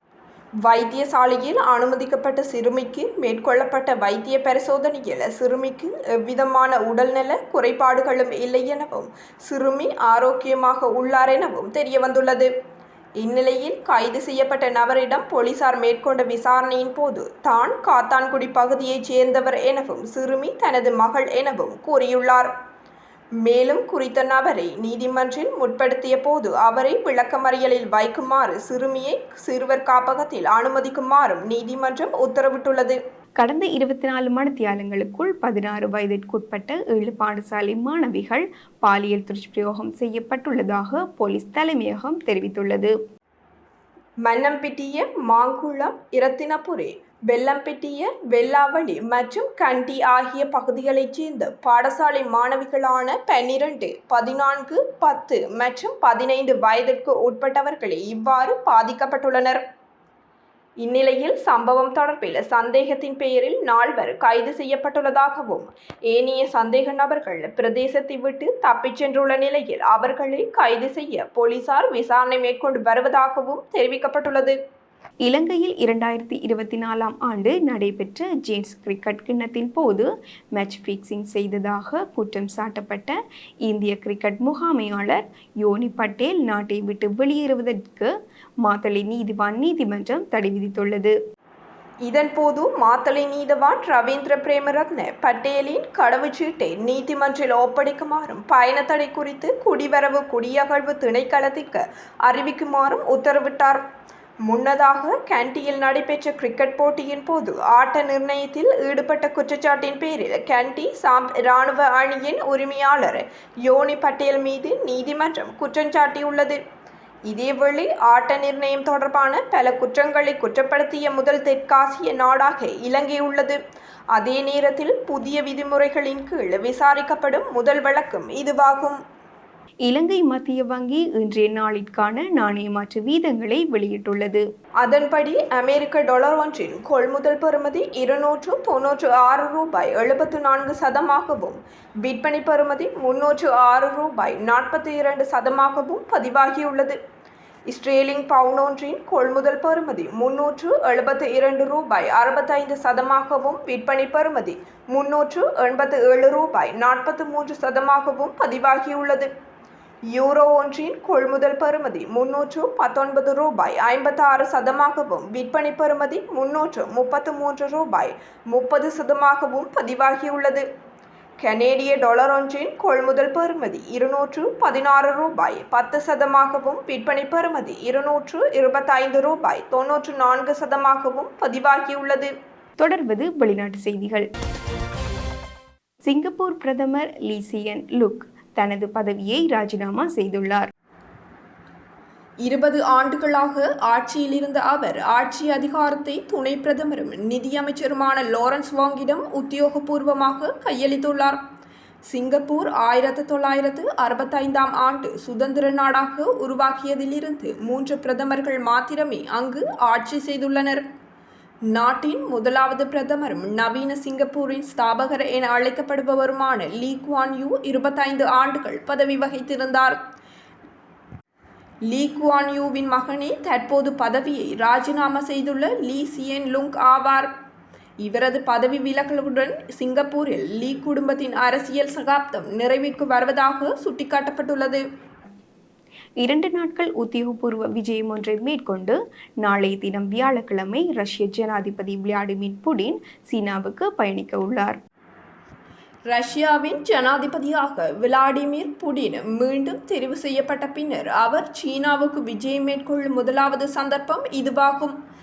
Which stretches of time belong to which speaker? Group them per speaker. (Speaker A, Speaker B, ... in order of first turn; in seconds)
Speaker A: 0.6-12.5, 13.2-22.5, 23.4-33.0, 44.2-59.6, 60.8-74.5, 92.0-103.8, 104.5-116.6, 117.3-123.6, 124.1-129.0, 134.8-147.0, 147.7-159.3, 160.1-170.6, 171.4-182.3, 192.4-201.4, 202.1-210.8, 211.7-220.0, 221.9-227.3, 228.0-234.8, 246.1-254.9
Speaker B: 33.4-42.9, 75.2-83.2, 83.7-88.1, 88.6-91.1, 129.9-134.4, 182.8-184.3, 186.1-190.7, 236.2-244.8